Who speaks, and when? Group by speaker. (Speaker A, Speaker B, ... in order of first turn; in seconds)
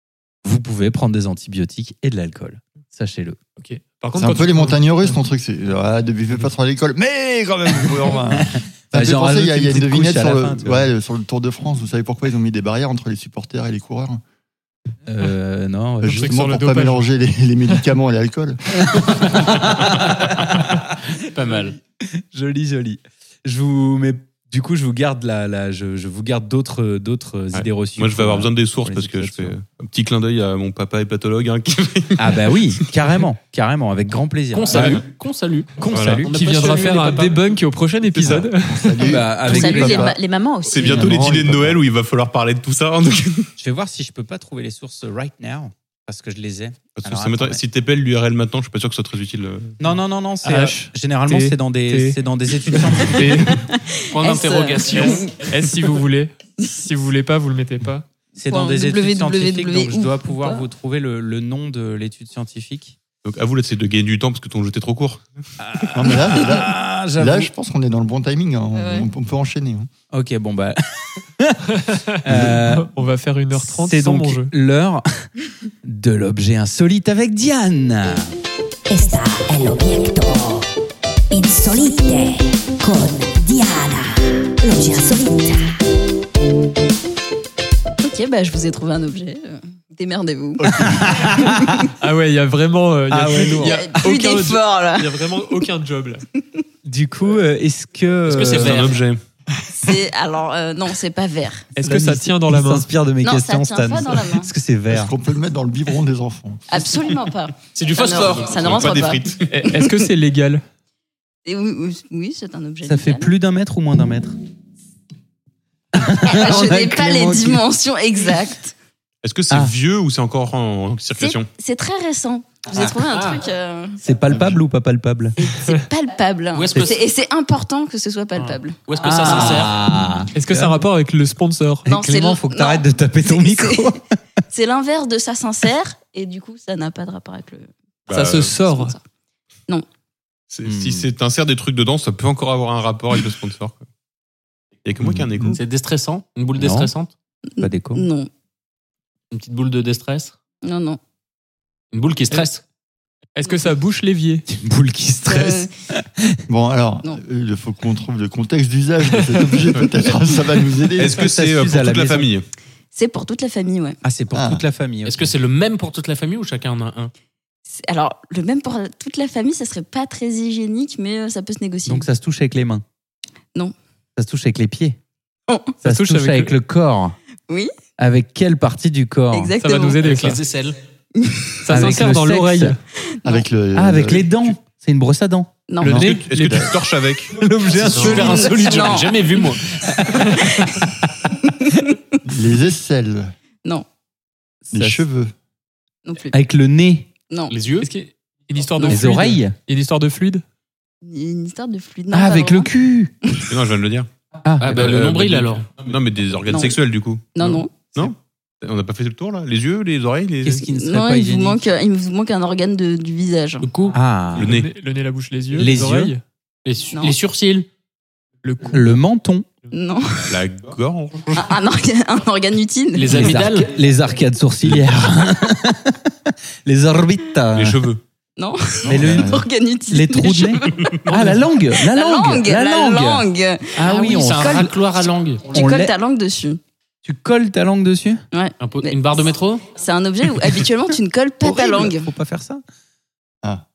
Speaker A: 0.4-3.4, 8.4-10.9, 15.1-16.3, 18.9-20.9, 22.1-29.5, 32.2-35.0, 35.8-36.3, 39.0-40.1, 43.6-47.6, 49.8-53.4, 58.4-63.0, 65.6-67.5, 70.1-71.6, 72.2-72.9, 73.5-75.3, 75.8-78.3, 90.8-91.9, 93.1-94.0, 96.8-98.8, 101.8-105.1, 112.8-114.3, 115.9-117.6, 124.0-125.3, 129.0-130.8, 131.9-134.2, 140.6-141.1, 146.5-146.9, 147.6-148.0, 154.5-156.4, 161.1-162.3, 164.0-165.3, 171.8-172.8, 174.2-175.0, 175.8-177.2, 178.0-179.5, 181.7-182.8, 183.7-185.5, 187.3-189.0, 194.7-195.0, 196.3-197.1, 198.8-199.6, 202.1-203.1, 204.4-204.8, 210.4-211.6, 213.9-214.5, 215.6-216.1, 218.7-219.4, 223.1-227.8, 228.8-234.7, 235.5-235.9, 237.0-238.2, 241.4-242.6
Speaker B: 3.6-5.2, 16.0-17.1, 36.0-39.1, 50.4-52.2, 52.7-53.6, 55.4-58.0, 71.7-74.5, 92.0-96.2, 101.7-102.9, 109.5-110.6, 130.3-131.9, 138.1-138.9, 153.3-154.4, 159.2-159.6, 175.8-176.5, 179.6-180.4, 181.6-182.8, 185.8-186.7, 187.8-188.4, 197.8-200.4, 214.3-216.2, 218.4-219.0
Speaker C: 4.2-14.2, 16.0-19.1, 38.2-40.2, 40.8-41.8, 65.9-69.9, 90.6-91.4, 99.6-99.9, 104.9-106.8, 124.3-124.6, 145.0-145.5, 156.5-161.3, 164.3-164.6, 183.2-184.5, 185.8-186.7, 192.2-193.3, 194.7-195.3, 228.8-229.5
Speaker D: 19.3-20.6, 21.2-21.8, 34.5-37.4, 54.1-55.4, 98.3-99.0, 107.7-108.8, 123.1-123.4, 126.5-127.0, 128.3-129.8, 145.5-147.1, 149.3-150.4, 151.9-152.6, 165.0-167.1, 180.0-180.8, 187.9-190.3, 197.5-197.9, 204.6-205.7, 213.6-214.0, 216.6-217.7, 222.9-223.7, 234.1-235.5, 238.6-239.7
Speaker E: 27.5-33.2, 35.9-36.2, 40.6-43.5, 47.0-49.8, 63.2-65.3, 98.5-99.2, 108.4-109.5, 119.2-121.5, 138.1-138.6, 140.5-143.8, 144.8-145.6, 161.0-162.4, 185.9-188.0, 203.5-204.1, 204.6-210.6, 214.3-214.7, 220.3-221.6, 227.5-228.0
Speaker F: 39.4-41.2, 53.7-55.4, 58.4-60.6, 68.7-69.1, 88.0-91.9, 93.6-95.5, 99.7-101.7, 103.2-104.5, 106.7-109.9, 111.4-113.3, 116.1-118.7, 121.2-124.0, 125.4-129.7, 131.9-134.0, 134.5-137.7, 138.7-139.0, 147.6-148.3, 150.6-151.0, 155.3-155.7, 162.9-164.0, 167.7-172.1, 175.5-175.7, 179.3-180.0, 181.2-181.6, 185.7-186.1, 188.1-189.6, 190.4-190.8, 191.4-192.2, 196.0-196.4, 197.3-197.5, 201.0-202.7, 206.5-206.8, 207.3-207.9, 210.7-213.7, 216.9-217.2, 219.7-220.4, 221.3-223.2, 228.4-236.6, 238.3-242.1
Speaker G: 78.9-80.7, 81.3-85.7